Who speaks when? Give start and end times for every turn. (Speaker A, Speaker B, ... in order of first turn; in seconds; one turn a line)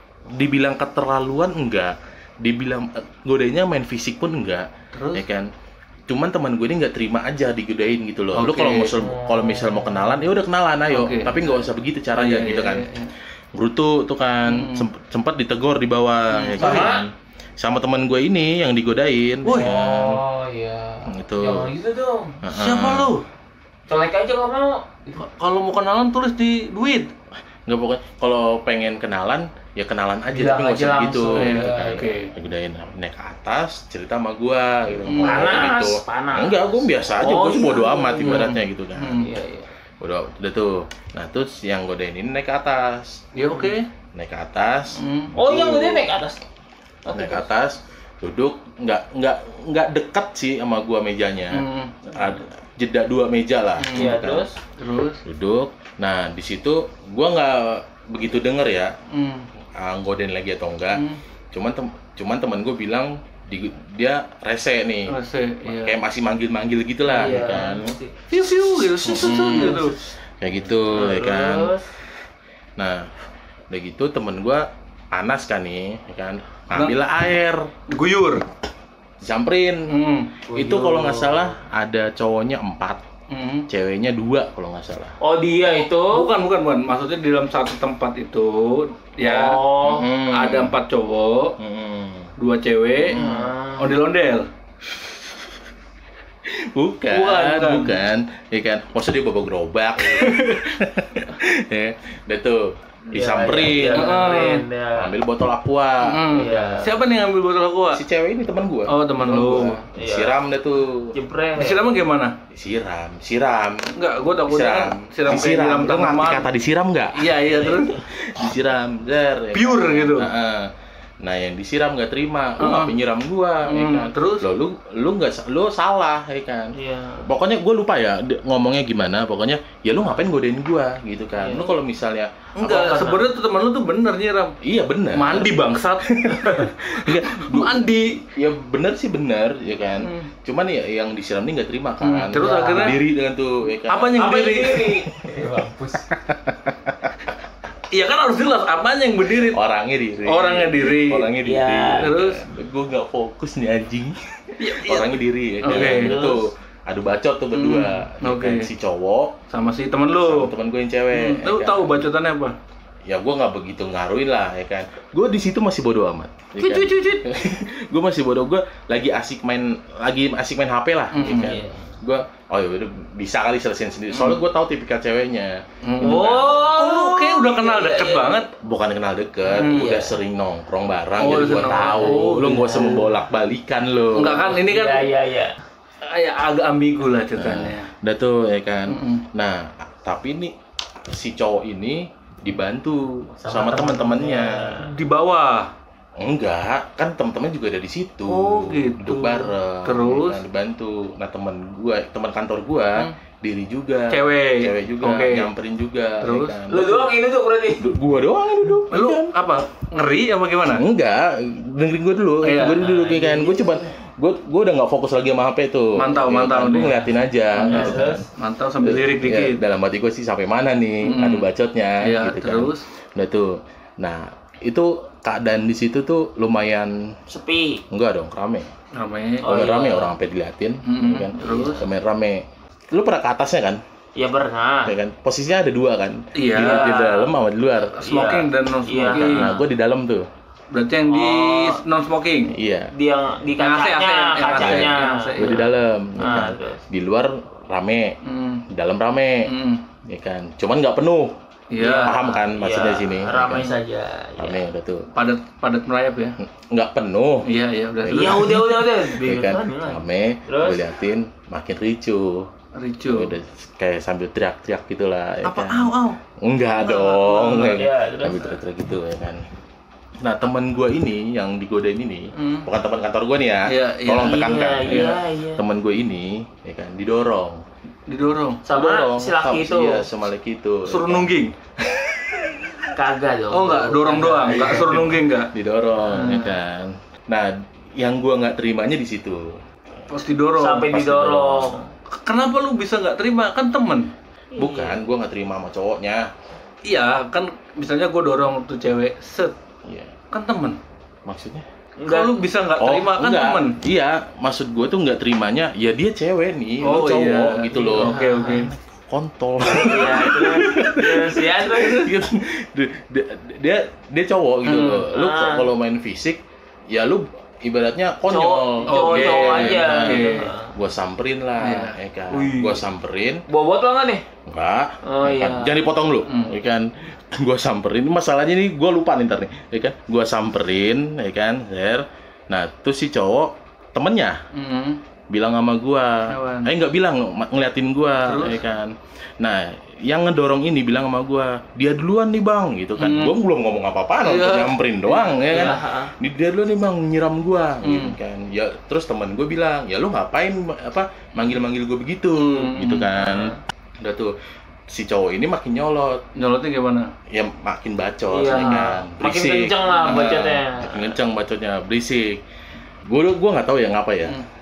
Speaker A: 0.3-5.5
Speaker B: 4.9-5.2
Speaker A: 6.1-12.9
Speaker B: 8.3-8.9
Speaker C: 8.9-10.2
Speaker B: 10.9-11.6
Speaker B: 12.1-13.1
Speaker A: 13.5-20.2
Speaker B: 14.5-14.8
Speaker B: 16.3-16.9
Speaker C: 16.6-17.0
Speaker B: 19.4-19.8
Speaker C: 19.5-22.4
Speaker A: 21.1-21.7
Speaker A: 22.4-23.1
Speaker B: 22.5-23.2
Speaker C: 23.9-25.2
Speaker B: 25.2-27.1
Speaker A: 27.6-39.3
Speaker C: 30.3-32.2
Speaker B: 31.3-32.3
Speaker B: 35.0-35.7
Speaker C: 35.1-38.5
Speaker B: 38.2-39.3
Speaker C: 39.1-39.7
Speaker A: 40.0-43.2
Speaker B: 43.3-43.9
Speaker A: 44.1-46.1
Speaker B: 45.0-45.3
Speaker C: 45.4-46.4
Speaker C: 47.0-47.5
Speaker A: 47.1-54.5
Speaker B: 51.5-52.4
Speaker B: 53.8-54.1
Speaker C: 53.9-54.5
Speaker B: 54.8-55.2
Speaker A: 55.2-58.9
Speaker B: 59.1-59.5
Speaker A: 59.8-67.9
Speaker B: 60.9-61.2
Speaker B: 65.1-66.0
Speaker C: 67.0-68.1
Speaker B: 67.2-67.6
Speaker B: 68.3-70.0
Speaker A: 69.0-71.7
Speaker C: 69.2-69.9
Speaker C: 70.9-71.8
Speaker A: 72.8-73.1
Speaker A: 73.7-77.7
Speaker B: 77.9-78.4
Speaker A: 79.2-79.9
Speaker B: 79.9-80.3
Speaker C: 80.5-81.6
Speaker A: 80.5-83.0
Speaker B: 83.3-83.7
Speaker A: 83.7-85.1
Speaker C: 85.2-86.3
Speaker B: 86.0-89.5
Speaker C: 89.2-90.1
Speaker A: 89.8-90.8
Speaker B: 90.3-91.5
Speaker A: 91.6-92.3
Speaker B: 92.4-93.2
Speaker A: 93.0-93.5
Speaker C: 93.1-94.0
Speaker B: 93.8-94.5
Speaker A: 96.5-104.3
Speaker B: 97.1-98.0
Speaker B: 100.2-100.6
Speaker C: 103.1-105.1
Speaker B: 103.9-104.6
Speaker A: 105.0-107.0
Speaker B: 106.0-108.0
Speaker C: 106.3-107.0
Speaker A: 107.9-111.1
Speaker B: 108.9-109.8
Speaker C: 109.6-110.4
Speaker C: 111.1-111.8
Speaker B: 111.6-112.3
Speaker A: 112.5-113.9
Speaker B: 113.9-116.4
Speaker A: 114.5-117.4
Speaker B: 117.1-118.0
Speaker C: 117.7-118.0
Speaker A: 118.0-120.7
Speaker B: 119.5-120.3
Speaker A: 121.2-133.1
Speaker B: 122.6-122.9
Speaker B: 123.7-124.5
Speaker C: 126.7-127.3
Speaker C: 131.3-131.7
Speaker B: 132.6-134.5
Speaker C: 132.6-133.3
Speaker A: 134.6-144.7
Speaker B: 135.1-138.2
Speaker B: 140.0-140.3
Speaker B: 142.0-143.0
Speaker C: 142.3-142.9
Speaker B: 143.9-145.1
Speaker C: 144.2-146.1
Speaker A: 146.1-147.1
Speaker B: 147.9-149.6
Speaker A: 149.3-159.4
Speaker B: 150.2-151.3
Speaker C: 151.4-152.1
Speaker B: 152.0-152.4
Speaker B: 154.6-156.1
Speaker C: 155.7-156.4
Speaker B: 157.5-158.7
Speaker B: 159.5-160.5
Speaker A: 160.1-162.1
Speaker B: 161.1-162.5
Speaker A: 163.1-176.8
Speaker B: 166.6-167.2
Speaker B: 171.1-171.6
Speaker C: 171.2-171.9
Speaker B: 174.1-174.4
Speaker B: 175.8-178.5
Speaker C: 176.0-178.4
Speaker A: 178.6-184.6
Speaker C: 179.5-180.2
Speaker B: 179.5-179.9
Speaker B: 181.2-183.0
Speaker C: 181.3-183.1
Speaker B: 184.1-185.1
Speaker C: 184.3-185.5
Speaker B: 186.0-187.9
Speaker A: 187.3-190.5
Speaker B: 188.9-189.2
Speaker A: 191.1-194.8
Speaker C: 193.4-194.9
Speaker B: 194.8-195.7
Speaker A: 196.2-207.2
Speaker B: 198.3-200.4
Speaker B: 204.1-205.5
Speaker B: 206.2-206.6
Speaker C: 206.7-207.9
Speaker A: 207.8-209.3
Speaker B: 208.9-210.8
Speaker A: 210.7-218.2
Speaker B: 212.4-213.5
Speaker B: 215.9-219.6
Speaker C: 217.7-218.2
Speaker A: 218.8-227.1
Speaker B: 221.0-221.5
Speaker B: 222.0-222.8
Speaker C: 227.3-227.8
Speaker A: 227.9-228.7
Speaker B: 228.9-229.5
Speaker C: 229.4-230.1
Speaker A: 229.4-233.8
Speaker B: 230.8-231.8
Speaker C: 231.4-231.8
Speaker C: 234.2-234.9
Speaker A: 234.8-238.0
Speaker B: 236.3-236.9
Speaker C: 236.5-237.3
Speaker B: 237.9-239.5
Speaker C: 238.0-239.7
Speaker A: 238.9-240.3
Speaker B: 240.7-242.6
Speaker C: 241.1-241.8
Speaker A: 242.5-242.9
Speaker C: 242.9-245.6
Speaker B: 243.6-245.7
Speaker A: 244.4-248.1
Speaker C: 246.2-246.8
Speaker B: 248.2-248.6
Speaker A: 248.7-249.5
Speaker B: 249.4-249.8
Speaker A: 250.1-251.3
Speaker B: 251.7-252.2
Speaker C: 251.8-254.6
Speaker A: 252.0-253.7
Speaker A: 254.4-255.1
Speaker B: 255.1-256.4
Speaker A: 256.4-257.4
Speaker B: 257.5-258.8
Speaker A: 258.0-262.5
Speaker C: 258.1-260.8
Speaker B: 262.7-263.4
Speaker A: 263.1-269.5
Speaker B: 265.4-266.2
Speaker B: 266.8-267.8
Speaker C: 267.7-268.6
Speaker A: 270.2-277.6
Speaker B: 272.4-272.7
Speaker B: 273.7-275.1
Speaker C: 274.2-275.6
Speaker B: 278.1-278.6
Speaker C: 278.6-280.1
Speaker A: 278.7-282.9
Speaker B: 280.9-281.5
Speaker C: 282.9-285.1
Speaker B: 283.5-285.5
Speaker A: 284.7-285.0
Speaker A: 285.5-290.1
Speaker B: 286.1-286.5
Speaker C: 286.1-286.5
Speaker B: 290.1-290.9
Speaker C: 290.6-291.8
Speaker A: 290.9-291.8
Speaker B: 292.1-294.1
Speaker C: 294.5-295.0
Speaker A: 294.6-296.3
Speaker B: 296.8-299.5
Speaker A: 299.8-300.2
Speaker B: 300.3-300.8
Speaker A: 301.2-301.6
Speaker C: 302.0-302.3
Speaker B: 302.1-303.8
Speaker A: 302.8-323.4
Speaker B: 306.8-308.7
Speaker C: 307.9-308.7
Speaker C: 309.6-312.1
Speaker B: 314.6-315.1
Speaker C: 315.1-315.7
Speaker C: 318.3-320.7
Speaker B: 318.9-320.5
Speaker B: 321.6-322.7
Speaker C: 323.5-324.2
Speaker A: 324.4-334.4
Speaker C: 325.0-325.8
Speaker B: 326.3-326.6
Speaker B: 334.5-335.0
Speaker A: 335.3-354.3
Speaker B: 336.3-336.7
Speaker B: 338.2-338.6
Speaker B: 343.0-343.3
Speaker B: 344.2-345.8
Speaker C: 345.5-346.1
Speaker B: 347.8-348.1
Speaker B: 352.4-353.1
Speaker C: 353.1-353.6
Speaker A: 354.9-356.2
Speaker B: 356.3-357.1
Speaker A: 357.3-362.4
Speaker C: 358.3-361.1
Speaker A: 363.1-364.4